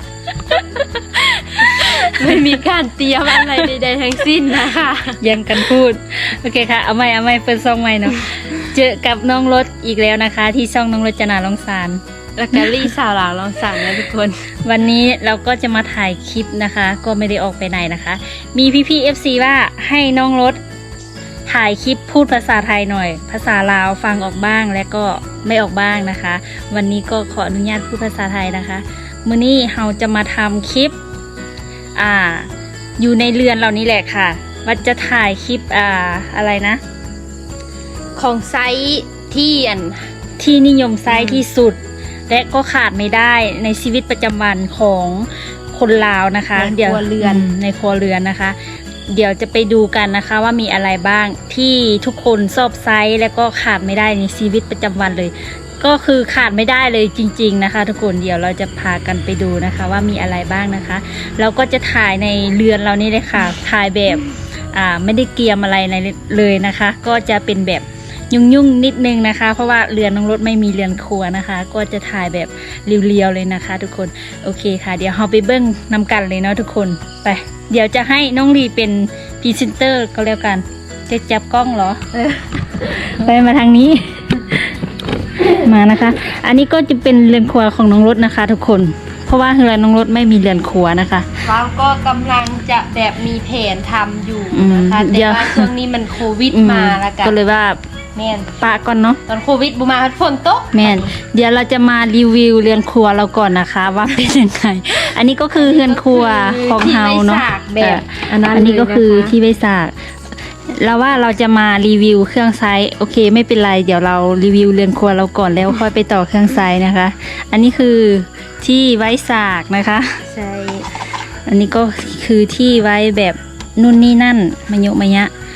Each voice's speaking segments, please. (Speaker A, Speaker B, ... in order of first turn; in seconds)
Speaker A: 0.8-5.2, 12.4-14.5, 38.2-40.1, 41.1-41.4, 46.5-47.5, 82.1-83.2, 91.4-97.4, 98.2-98.5, 99.3-101.1, 105.5-109.3, 120.3-120.9
Speaker B: 1.8-2.2, 5.2-12.0, 14.7-20.6, 21.5-30.9, 31.9-36.8, 40.4-48.6, 49.1-82.0, 82.9-84.8, 85.4-91.3, 94.5-95.7, 96.5-97.8, 98.6-99.2, 100.7-109.9, 110.7-120.2, 121.5-125.3